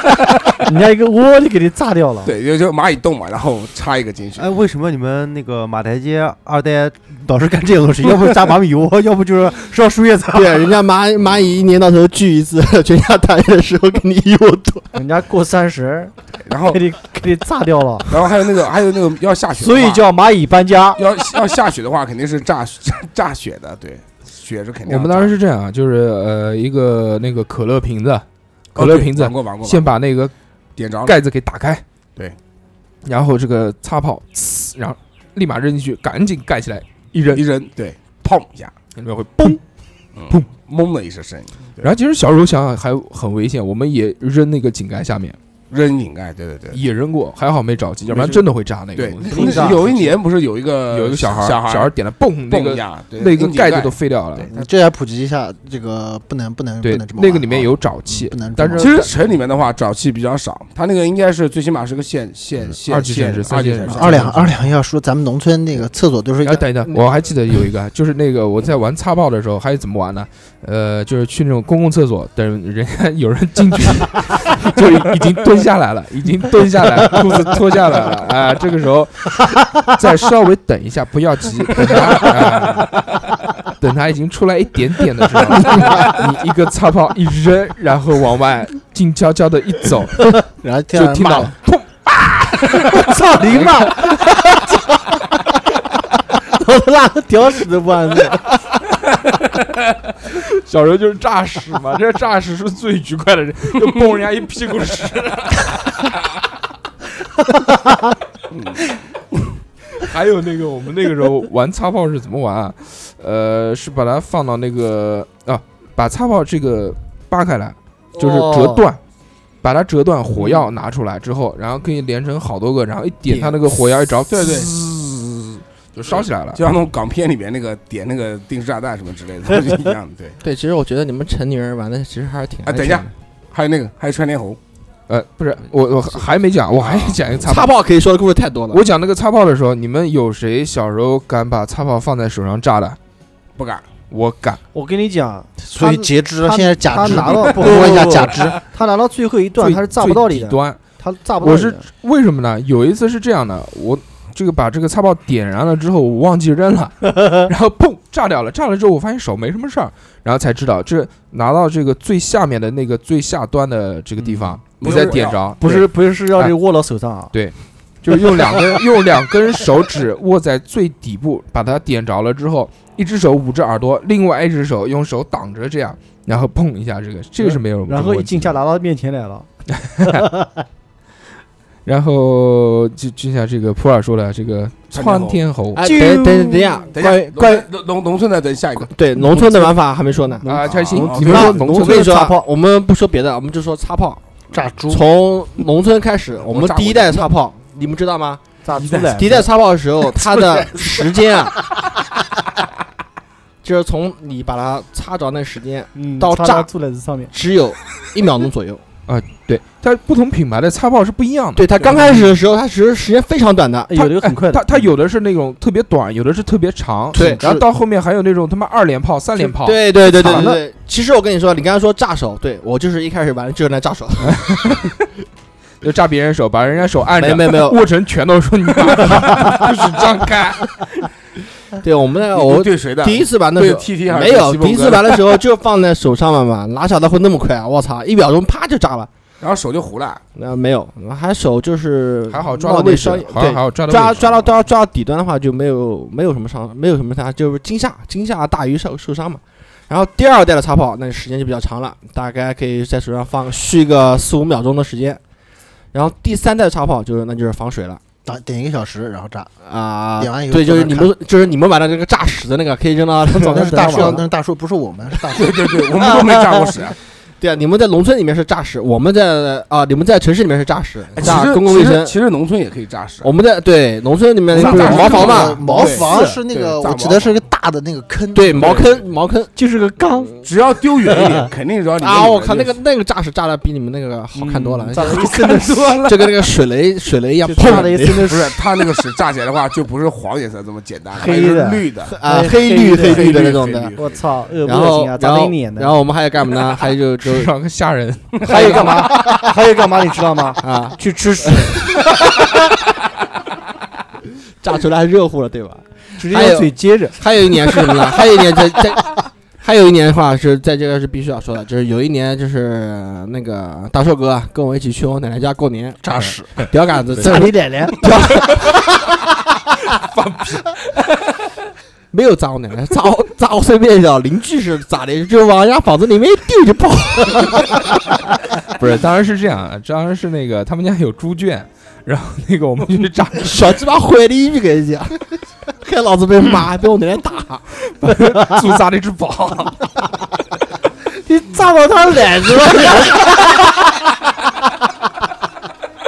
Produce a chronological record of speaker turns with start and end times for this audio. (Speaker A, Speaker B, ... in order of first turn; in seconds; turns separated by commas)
Speaker A: 0.7-2.3, Speaker B: 2.2-4.5, Speaker C: 4.4-10.7, Speaker D: 10.3-14.9, Speaker A: 14.9-16.1, Speaker B: 16.4-16.8, Speaker A: 16.6-18.1, Speaker B: 18.1-20.1, Speaker A: 19.5-21.0, Speaker B: 20.9-25.3, Speaker E: 24.9-30.3, Speaker B: 28.7-29.9, Speaker B: 30.8-31.2, Speaker E: 31.0-31.8, Speaker E: 33.0-37.4, Speaker B: 37.3-38.7, Speaker E: 39.0-39.6, Speaker B: 40.1-41.9, Speaker E: 41.8-45.4, Speaker B: 45.7-46.8, Speaker E: 46.7-50.2, Speaker B: 49.0-51.9, Speaker A: 49.3-49.9, Speaker E: 50.9-54.5, Speaker B: 52.5-54.6, Speaker F: 54.5-59.1, Speaker E: 56.8-59.1, Speaker B: 58.8-64.3, Speaker E: 62.9-64.5, Speaker F: 63.9-66.7, Speaker E: 66.4-83.1, Speaker E: 83.8-90.4, Speaker F: 90.6-91.5, Speaker E: 90.9-94.1, Speaker A: 92.9-94.8, Speaker A: 96.5-98.5, Speaker E: 100.1-106.1, Speaker B: 108.5-108.8, Speaker E: 110.0-119.0, Speaker A: 118.2-118.8, Speaker E: 119.6-124.7, Speaker D: 123.3-123.6, Speaker B: 124.3-130.4, Speaker E: 125.9-126.6, Speaker D: 130.4-133.1, Speaker B: 132.6-134.6, Speaker E: 135.1-137.7, Speaker B: 136.8-137.2, Speaker D: 137.4-138.8, Speaker E: 138.7-143.0, Speaker B: 143.6-143.8, Speaker E: 144.1-144.6, Speaker A: 144.7-151.9, Speaker F: 145.7-148.6, Speaker B: 147.2-148.0, Speaker E: 149.6-150.8, Speaker E: 151.4-166.6, Speaker A: 157.1-157.4, Speaker A: 164.3-167.3, Speaker B: 164.8-165.5, Speaker E: 167.3-178.6, Speaker A: 168.2-168.8, Speaker A: 177.4-179.5, Speaker E: 179.7-180.2, Speaker A: 180.1-180.6, Speaker E: 181.8-186.0, Speaker B: 184.9-185.4, Speaker D: 185.8-187.7, Speaker A: 185.8-186.9, Speaker B: 186.9-188.9, Speaker D: 188.9-190.5, Speaker A: 189.2-189.7, Speaker A: 190.4-192.4, Speaker E: 190.4-192.1, Speaker B: 190.6-191.6, Speaker D: 191.0-194.2, Speaker F: 194.5-195.0, Speaker D: 194.9-198.4, Speaker B: 196.4-197.3, Speaker A: 198.6-199.5, Speaker B: 198.8-199.2, Speaker D: 199.1-201.6, Speaker A: 200.1-201.1, Speaker D: 203.6-206.7, Speaker A: 205.9-207.3, Speaker D: 207.3-208.8, Speaker E: 209.1-211.8, Speaker D: 211.6-213.9, Speaker A: 213.9-214.8, Speaker E: 213.9-220.5, Speaker D: 217.1-217.4, Speaker F: 217.2-217.6, Speaker D: 219.4-224.6, Speaker A: 220.2-220.6, Speaker E: 224.2-225.0, Speaker E: 225.8-230.9, Speaker D: 227.2-227.8, Speaker D: 231.8-239.1, Speaker B: 232.3-235.4, Speaker B: 239.4-240.2, Speaker D: 240.3-255.2, Speaker E: 242.3-244.5, Speaker D: 255.9-258.0, Speaker F: 258.2-259.5, Speaker D: 259.6-264.2, Speaker F: 260.2-261.1, Speaker A: 263.4-264.2, Speaker F: 263.4-265.6, Speaker B: 265.3-266.9, Speaker D: 267.4-272.2, Speaker B: 271.1-273.3, Speaker D: 273.2-275.6, Speaker B: 274.5-277.4, Speaker A: 274.6-276.4, Speaker F: 274.7-278.6, Speaker D: 278.3-279.5, Speaker B: 278.5-279.1, Speaker A: 279.6-280.4, Speaker B: 280.4-282.8, Speaker A: 281.1-281.5, Speaker D: 282.0-288.3, Speaker A: 284.3-286.1, Speaker B: 284.9-286.3, Speaker A: 287.4-288.6, Speaker B: 287.6-292.2, Speaker A: 291.1-296.0, Speaker D: 292.1-293.9, Speaker B: 292.9-294.3, Speaker D: 294.6-297.5, Speaker E: 297.2-298.9, Speaker A: 298.4-302.4, Speaker D: 298.5-299.3, Speaker B: 298.6-298.9, Speaker D: 300.6-302.0, Speaker D: 304.6-318.8, Speaker A: 305.7-308.2, Speaker F: 316.0-316.5, Speaker A: 317.2-318.0, Speaker E: 318.4-318.8, Speaker E: 319.8-320.9, Speaker D: 322.1-327.9, Speaker E: 328.7-333.8, Speaker D: 333.4-335.1, Speaker D: 335.8-337.7, Speaker E: 337.8-339.8, Speaker A: 338.3-338.6, Speaker A: 341.2-343.3